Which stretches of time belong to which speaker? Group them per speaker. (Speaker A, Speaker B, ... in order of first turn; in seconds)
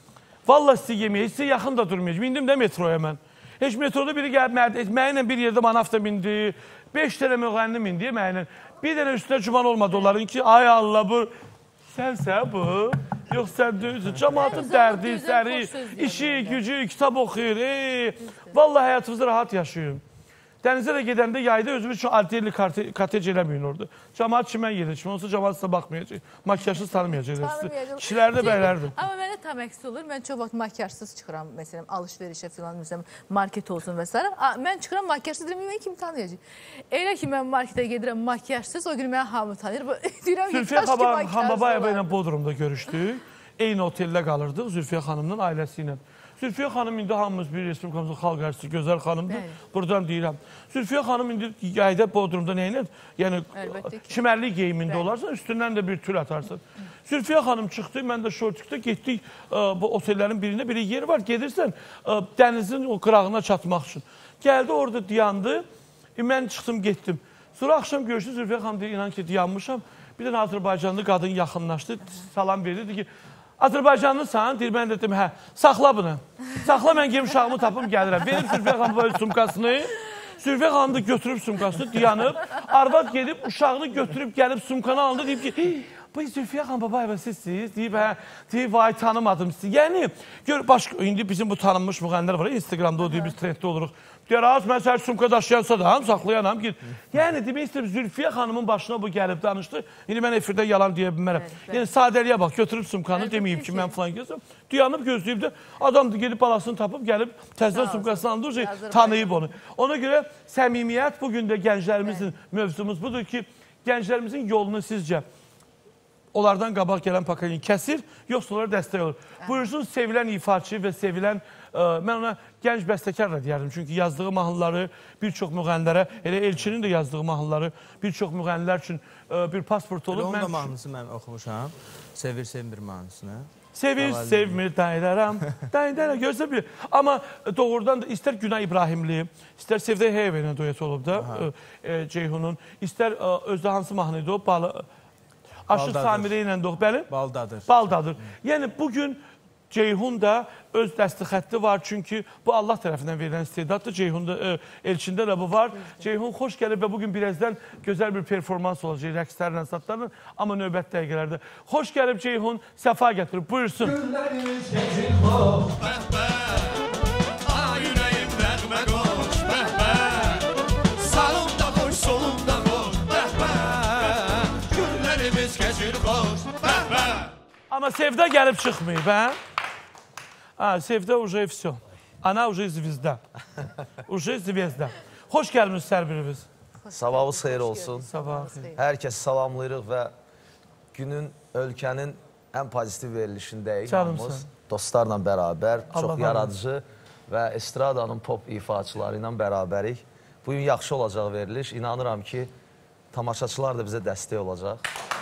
Speaker A: 0.5-11.3, 11.9-20.0, 20.6-29.0, 40.5-65.6, 66.2-73.1, 73.6-115.2, 116.3-130.7, 133.7-144.8, 145.7-147.1, 147.7-163.9, 177.7-179.4, 180.6-183.2, 184.1-186.4, 188.1-188.7, 193.9-194.4, 195.9-196.5
Speaker B: 14.3-16.6, 18.3-18.5, 26.7-42.1, 49.3-49.6, 53.5-54.2, 93.0-93.3, 101.3-101.9, 103.1-104.0, 107.7-109.4, 112.0-112.3, 186.8-188.8
Speaker C: 130.1-134.6, 141.1-141.5, 145.7-146.3, 147.1-147.7
Speaker D: 163.8-166.7, 167.4-170.5, 171.0-177.3
Speaker E: 186.9-188.1, 188.7-190.1, 190.9-202.5, 203.1-204.8